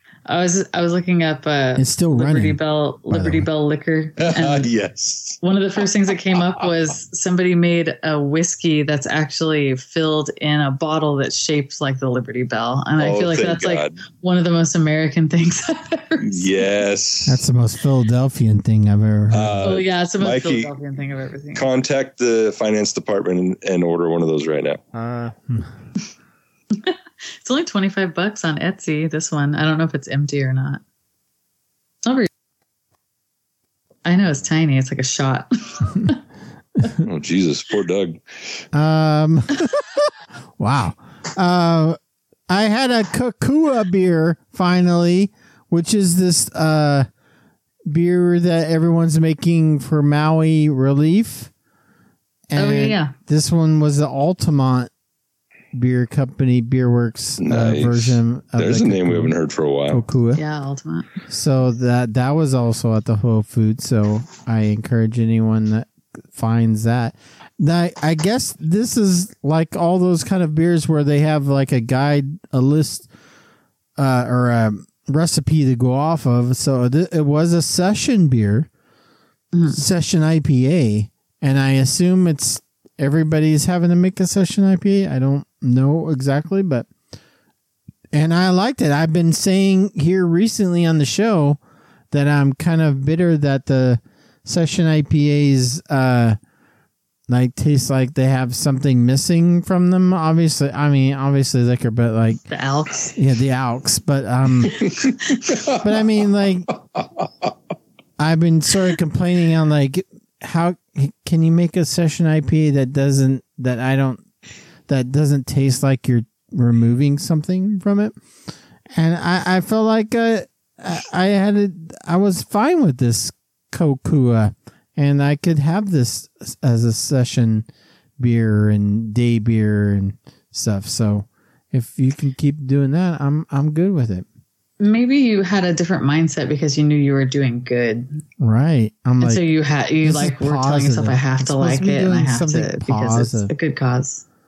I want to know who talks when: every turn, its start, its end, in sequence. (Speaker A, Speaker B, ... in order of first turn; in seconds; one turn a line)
Speaker A: 0.3-4.7
Speaker B: 1.8-2.6
Speaker B: 3.1-3.5
Speaker C: 4.2-5.4
Speaker A: 5.4-16.5
Speaker C: 13.0-14.0
Speaker C: 16.2-17.4
Speaker B: 17.3-19.7
Speaker C: 19.3-20.7
Speaker A: 19.6-21.7
Speaker C: 21.6-24.8
Speaker B: 24.9-25.7
Speaker A: 26.8-30.8
Speaker A: 32.0-32.3
Speaker A: 34.0-36.2
Speaker C: 37.0-38.2
Speaker B: 38.7-42.0
Speaker B: 42.5-47.1
Speaker B: 47.9-51.5
Speaker B: 52.5-54.9
Speaker A: 52.6-53.1
Speaker B: 55.7-59.3
Speaker C: 57.4-60.0
Speaker B: 59.9-60.4
Speaker A: 60.4-61.1
Speaker B: 61.3-73.1
Speaker B: 74.0-78.7
Speaker A: 79.5-79.8
Speaker B: 79.7-86.9
Speaker B: 88.1-91.6
Speaker B: 92.1-96.4
Speaker B: 97.3-102.4
Speaker A: 102.5-103.2
Speaker B: 103.2-104.8
Speaker A: 104.9-105.5
Speaker C: 105.5-105.8
Speaker B: 105.7-106.7
Speaker B: 108.2-114.2
Speaker B: 114.9-118.2
Speaker B: 118.9-127.7
Speaker B: 128.2-134.2
Speaker A: 134.8-138.2
Speaker B: 138.4-139.4
Speaker A: 139.2-144.2
Speaker B: 140.0-143.5